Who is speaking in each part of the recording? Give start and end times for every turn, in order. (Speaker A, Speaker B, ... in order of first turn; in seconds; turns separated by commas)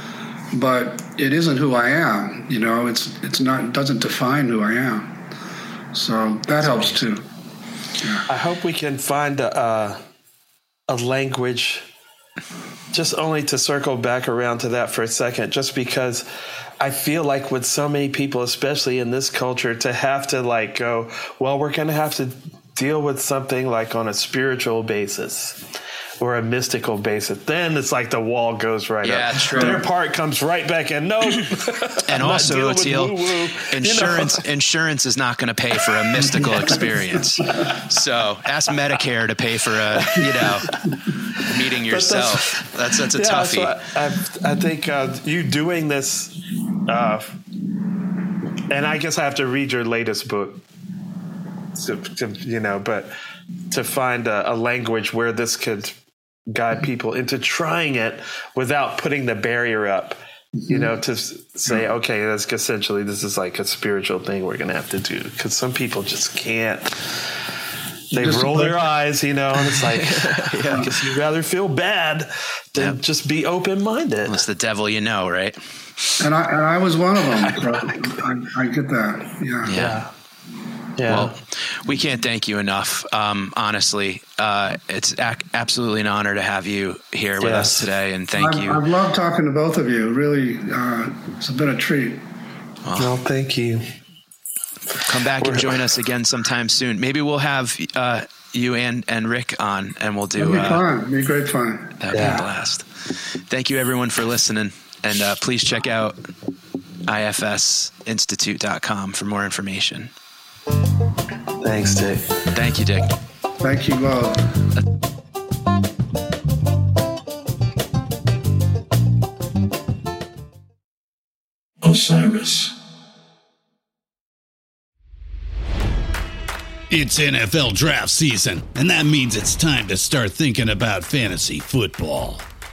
Speaker A: 0.5-5.1, Speaker A: 5.9-7.2, Speaker A: 8.0-8.2, Speaker B: 8.3-10.0, Speaker B: 10.9-11.9, Speaker B: 12.9-16.2, Speaker B: 16.8-25.6, Speaker B: 26.2-34.4, Speaker C: 29.0-29.8, Speaker A: 29.5-29.8, Speaker C: 32.1-40.7, Speaker B: 36.2-37.0, Speaker B: 40.1-46.3, Speaker C: 41.4-43.7, Speaker B: 46.9-47.3, Speaker B: 48.7-50.6, Speaker B: 51.7-53.1, Speaker B: 53.7-56.0, Speaker B: 56.5-67.2, Speaker A: 60.6-60.9, Speaker B: 68.1-74.4, Speaker A: 68.2-68.8, Speaker C: 70.0-70.9, Speaker C: 74.3-75.6, Speaker A: 76.2-79.7, Speaker B: 77.3-77.9, Speaker C: 79.6-80.0, Speaker B: 79.7-80.1, Speaker B: 81.0-81.3, Speaker C: 81.1-88.8, Speaker B: 87.4-87.8, Speaker A: 88.4-92.2, Speaker C: 92.8-93.1, Speaker B: 93.0-93.8, Speaker C: 95.0-100.8, Speaker B: 95.4-95.8, Speaker A: 100.4-102.4, Speaker C: 102.0-102.9, Speaker B: 102.1-102.4, Speaker C: 103.5-106.2, Speaker C: 107.1-110.1, Speaker B: 111.6-112.3, Speaker C: 112.5-113.1, Speaker A: 113.6-114.5, Speaker D: 121.8-122.5, Speaker D: 126.9-132.4